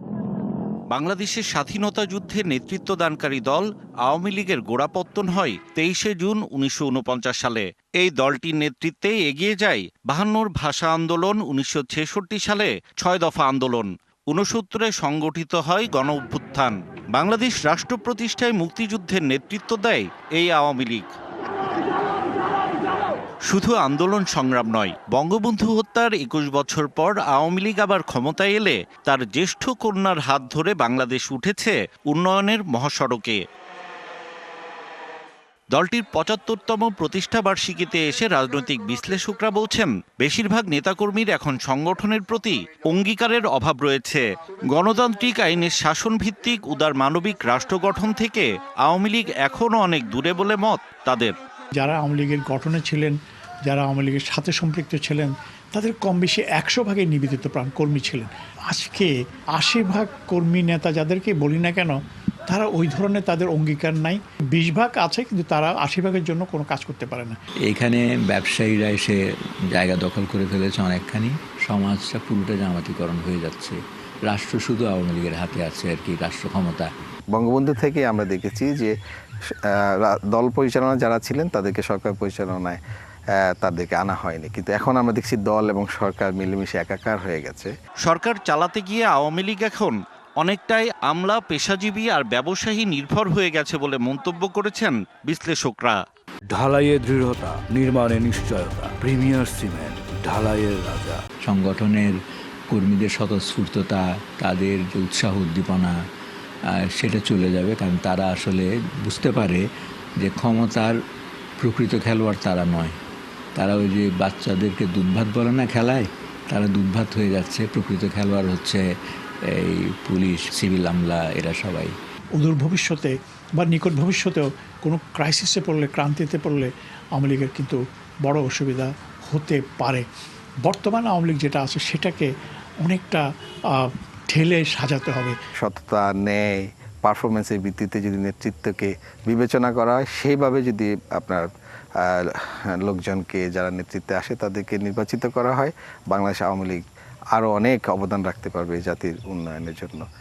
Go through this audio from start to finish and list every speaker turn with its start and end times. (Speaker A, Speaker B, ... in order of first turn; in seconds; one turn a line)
Speaker A: 0.9-21.1
Speaker A: 23.5-33.4
Speaker A: 35.7-51.4
Speaker B: 51.8-67.4
Speaker C: 67.7-76.9
Speaker D: 77.3-79.0
Speaker D: 79.7-82.8
Speaker D: 83.4-87.7
Speaker A: 88.0-96.0
Speaker E: 96.5-101.2
Speaker C: 101.5-106.0
Speaker C: 106.7-111.0
Speaker C: 111.6-113.0
Speaker C: 113.5-118.9
Speaker C: 119.5-122.0
Speaker B: 122.4-130.1
Speaker B: 130.6-135.4
Speaker D: 135.6-141.5
Speaker D: 142.0-146.8
Speaker D: 147.3-150.1